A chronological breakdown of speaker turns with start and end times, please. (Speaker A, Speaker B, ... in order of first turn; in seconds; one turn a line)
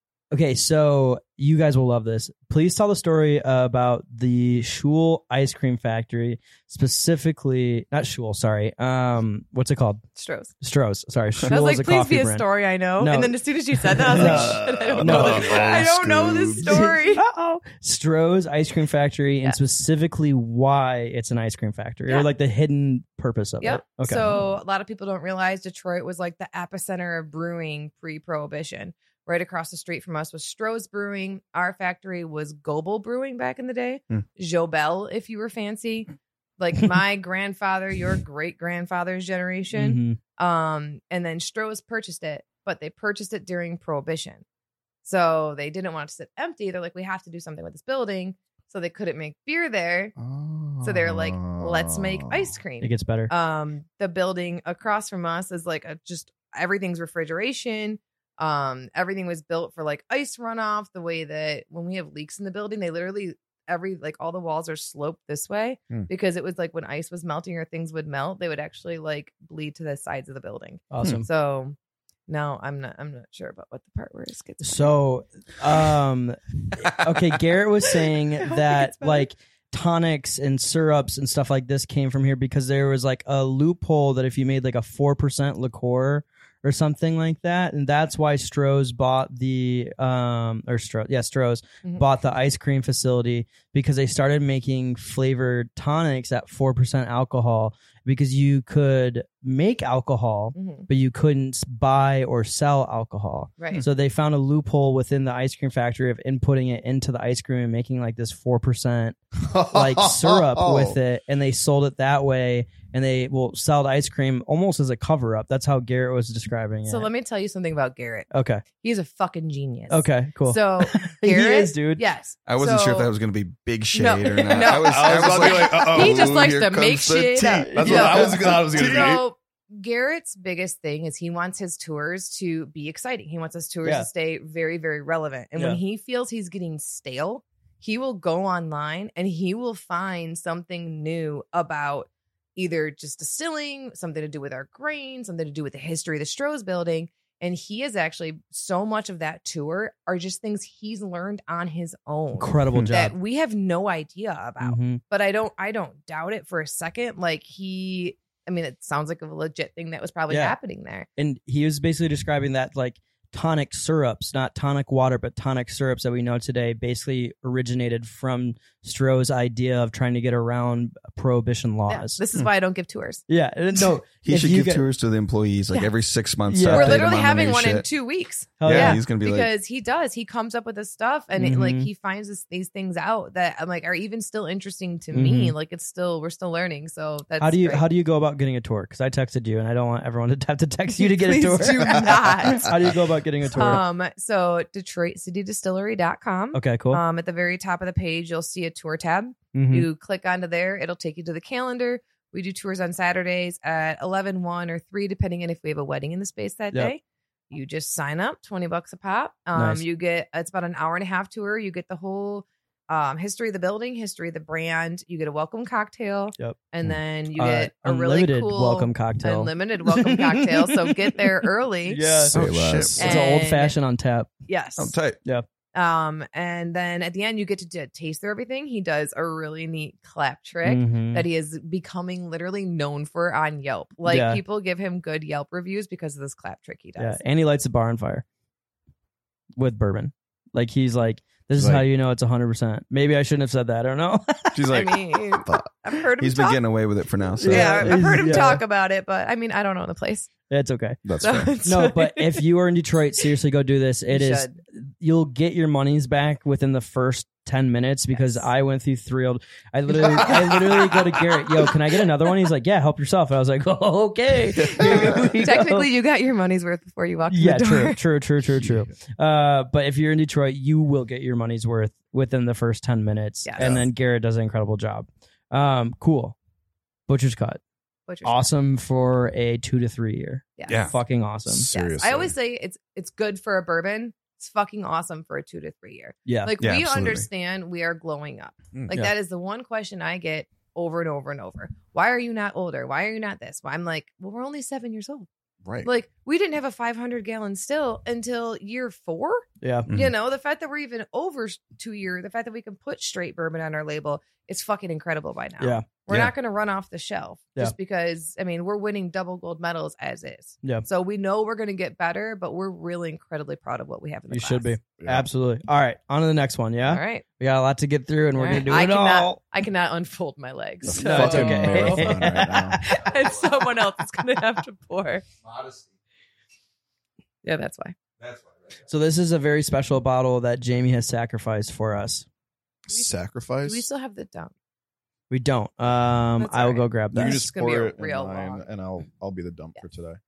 Speaker A: 0.3-10.0
Speaker B: 10.2-10.5
Speaker A: 10.6-12.5
Speaker B: 11.5-17.2
Speaker A: 13.0-13.3
Speaker A: 14.1-15.6
Speaker C: 14.1-16.8
Speaker D: 15.0-16.2
Speaker A: 16.6-24.5
Speaker B: 23.6-44.4
Speaker A: 39.7-40.2
Speaker B: 45.0-50.1
Speaker C: 50.2-52.5
Speaker B: 50.8-71.8
Speaker A: 52.8-53.3
Speaker A: 70.9-71.3
Speaker B: 72.3-75.0
Speaker A: 74.6-109.2
Speaker B: 78.3-79.3
Speaker B: 100.5-100.9
Speaker B: 103.6-103.8
Speaker C: 109.4-111.0
Speaker A: 109.7-117.1
Speaker B: 116.9-123.1
Speaker A: 118.3-118.6
Speaker A: 119.9-122.0
Speaker D: 122.5-128.2
Speaker B: 123.9-161.1
Speaker C: 124.6-126.6
Speaker C: 127.7-129.3
Speaker A: 127.7-128.3
Speaker A: 133.8-134.1
Speaker A: 152.4-153.1
Speaker A: 154.6-155.0
Speaker A: 160.3-160.6
Speaker A: 161.2-172.2
Speaker B: 171.9-173.2
Speaker A: 173.3-174.9
Speaker D: 174.2-177.9
Speaker A: 176.5-177.0
Speaker B: 176.7-187.8
Speaker A: 178.6-179.0
Speaker D: 178.6-179.5
Speaker A: 181.4-181.9
Speaker A: 185.1-185.6
Speaker A: 187.4-193.8
Speaker B: 190.9-192.8
Speaker C: 192.5-192.9
Speaker B: 193.5-222.3
Speaker A: 196.5-197.0
Speaker A: 199.5-199.9
Speaker A: 209.5-209.8
Speaker A: 217.3-222.4
Speaker C: 222.3-223.1
Speaker D: 222.3-223.1
Speaker B: 223.0-223.7
Speaker A: 223.0-224.3
Speaker B: 224.5-224.9
Speaker D: 224.8-225.2
Speaker B: 225.7-237.2
Speaker A: 230.7-231.2
Speaker A: 234.1-234.4
Speaker A: 237.0-238.2
Speaker A: 239.6-244.7
Speaker C: 241.6-241.8
Speaker C: 244.6-244.9
Speaker B: 244.7-246.6
Speaker C: 245.4-245.7
Speaker D: 246.2-248.5
Speaker A: 247.4-248.6
Speaker B: 247.4-250.3
Speaker A: 250.5-251.0
Speaker C: 251.1-251.5
Speaker B: 251.2-252.4
Speaker A: 251.6-265.9
Speaker B: 254.1-254.6
Speaker B: 258.1-258.5
Speaker B: 259.9-261.2
Speaker B: 264.6-268.0
Speaker A: 267.3-276.4
Speaker B: 273.4-273.8
Speaker A: 277.1-277.6
Speaker B: 278.1-278.5
Speaker A: 278.2-281.7
Speaker B: 280.6-280.9
Speaker D: 280.7-280.9
Speaker C: 281.5-282.4
Speaker B: 281.7-295.3
Speaker A: 286.3-286.5
Speaker D: 286.6-287.3
Speaker B: 295.8-314.7
Speaker A: 299.6-299.9
Speaker A: 305.6-305.9
Speaker A: 314.3-319.4
Speaker C: 315.0-315.3
Speaker B: 316.9-317.2
Speaker B: 318.4-325.3
Speaker C: 320.8-322.8
Speaker A: 320.9-323.1
Speaker D: 325.5-325.8
Speaker B: 327.4-327.9
Speaker D: 328.2-328.5
Speaker A: 328.9-332.3
Speaker C: 332.9-333.9
Speaker B: 333.6-334.5
Speaker A: 335.3-337.4
Speaker B: 336.4-338.6
Speaker C: 337.1-340.2